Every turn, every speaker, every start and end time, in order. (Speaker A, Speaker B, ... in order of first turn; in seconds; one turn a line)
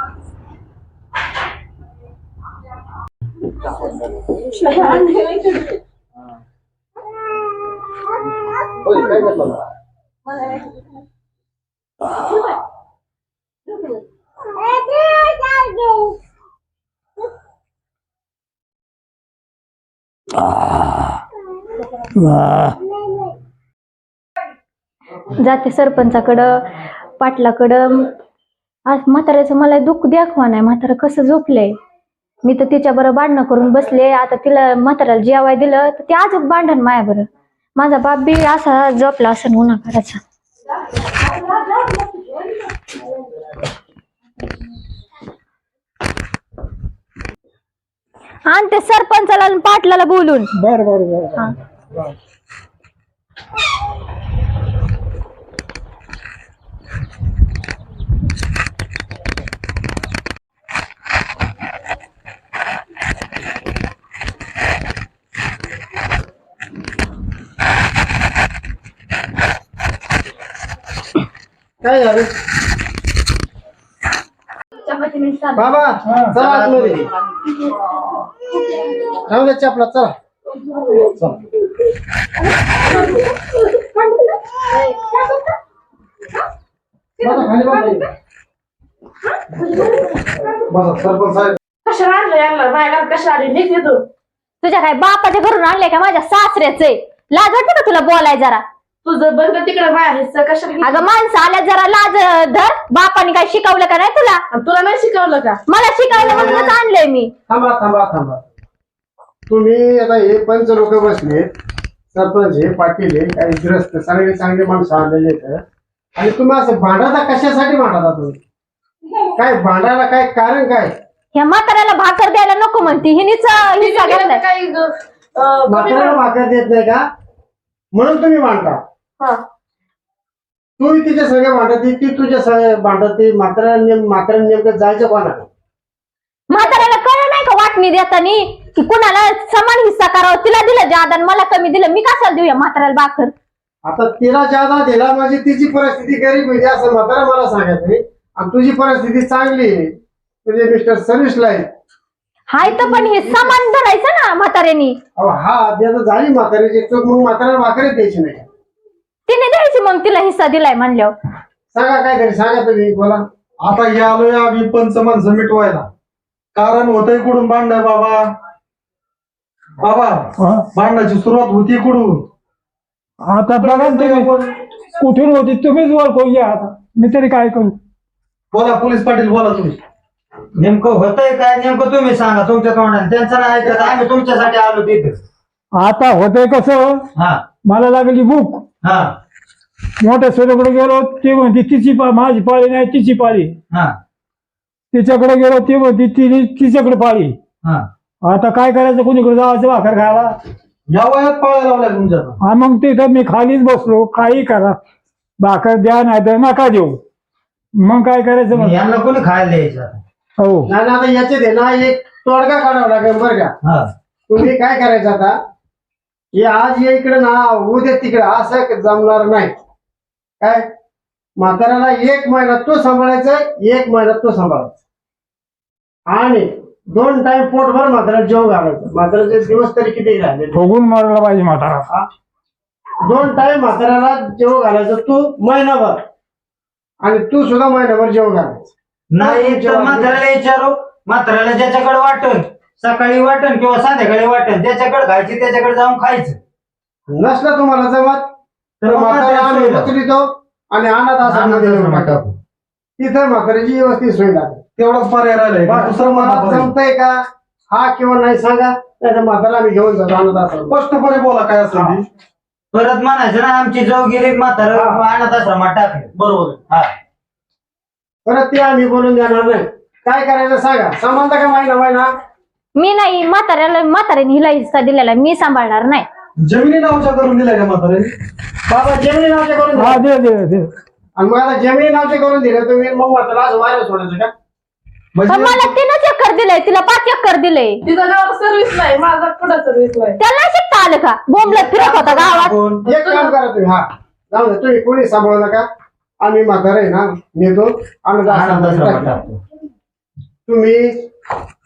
Speaker A: 4.6-5.7
Speaker B: 9.0-9.3
Speaker C: 14.9-15.7
Speaker D: 22.1-22.8
Speaker C: 25.4-26.6
Speaker C: 27.2-28.1
Speaker C: 28.9-31.8
Speaker C: 32.4-40.2
Speaker A: 41.5-42.0
Speaker C: 48.5-50.5
Speaker D: 50.6-51.5
Speaker B: 71.8-72.3
Speaker C: 74.8-75.7
Speaker B: 75.5-77.0
Speaker D: 76.1-76.4
Speaker E: 76.3-77.1
Speaker B: 79.2-80.1
Speaker C: 84.9-85.2
Speaker B: 87.2-88.0
Speaker F: 90.7-91.6
Speaker A: 91.8-94.0
Speaker C: 94.6-98.6
Speaker A: 99.0-101.0
Speaker C: 100.8-104.4
Speaker A: 104.5-105.6
Speaker C: 105.7-107.3
Speaker B: 106.1-106.7
Speaker B: 107.5-108.4
Speaker B: 109.5-111.5
Speaker B: 112.1-115.6
Speaker B: 116.2-118.4
Speaker B: 119.3-120.9
Speaker C: 121.3-124.4
Speaker A: 123.6-126.2
Speaker B: 125.7-127.0
Speaker B: 127.9-128.8
Speaker B: 130.8-135.5
Speaker C: 136.5-143.3
Speaker A: 136.5-136.8
Speaker B: 143.8-151.7
Speaker C: 152.5-155.0
Speaker B: 152.6-153.6
Speaker B: 155.2-158.5
Speaker C: 159.3-161.1
Speaker B: 161.7-163.2
Speaker F: 163.6-165.9
Speaker F: 166.5-168.3
Speaker F: 169.8-172.2
Speaker D: 170.4-170.7
Speaker D: 173.3-174.3
Speaker F: 173.5-174.5
Speaker D: 174.9-177.8
Speaker F: 178.5-179.8
Speaker E: 180.6-185.2
Speaker F: 183.6-184.0
Speaker D: 185.7-187.0
Speaker E: 187.2-187.4
Speaker D: 187.6-188.6
Speaker E: 188.8-189.1
Speaker D: 190.0-193.6
Speaker D: 194.9-197.3
Speaker D: 198.2-200.3
Speaker F: 200.9-202.4
Speaker D: 202.4-204.8
Speaker D: 205.4-207.0
Speaker D: 207.8-208.7
Speaker E: 208.5-210.0
Speaker D: 210.4-210.7
Speaker B: 210.7-213.5
Speaker E: 213.6-213.9
Speaker B: 214.3-215.3
Speaker B: 216.3-219.5
Speaker B: 220.4-220.7
Speaker B: 221.4-224.7
Speaker B: 226.1-230.6
Speaker D: 230.5-231.8
Speaker B: 233.0-236.0
Speaker B: 237.0-240.2
Speaker E: 239.1-246.4
Speaker B: 247.1-248.3
Speaker E: 248.8-249.9
Speaker B: 248.8-252.2
Speaker E: 251.2-252.3
Speaker B: 253.0-254.6
Speaker F: 254.8-256.7
Speaker B: 255.7-257.2
Speaker B: 257.7-260.8
Speaker F: 260.7-262.0
Speaker E: 262.7-266.1
Speaker B: 264.7-265.0
Speaker F: 266.1-266.6
Speaker B: 268.2-272.1
Speaker C: 272.8-276.1
Speaker F: 276.4-278.1
Speaker B: 278.7-280.0
Speaker D: 279.8-280.7
Speaker B: 281.2-284.3
Speaker F: 285.1-285.7
Speaker C: 285.3-287.8
Speaker A: 287.8-290.2
Speaker C: 290.2-292.5
Speaker E: 291.4-292.9
Speaker B: 292.8-295.7
Speaker A: 292.9-293.3
Speaker B: 296.2-299.2
Speaker E: 298.3-299.4
Speaker B: 300.5-300.9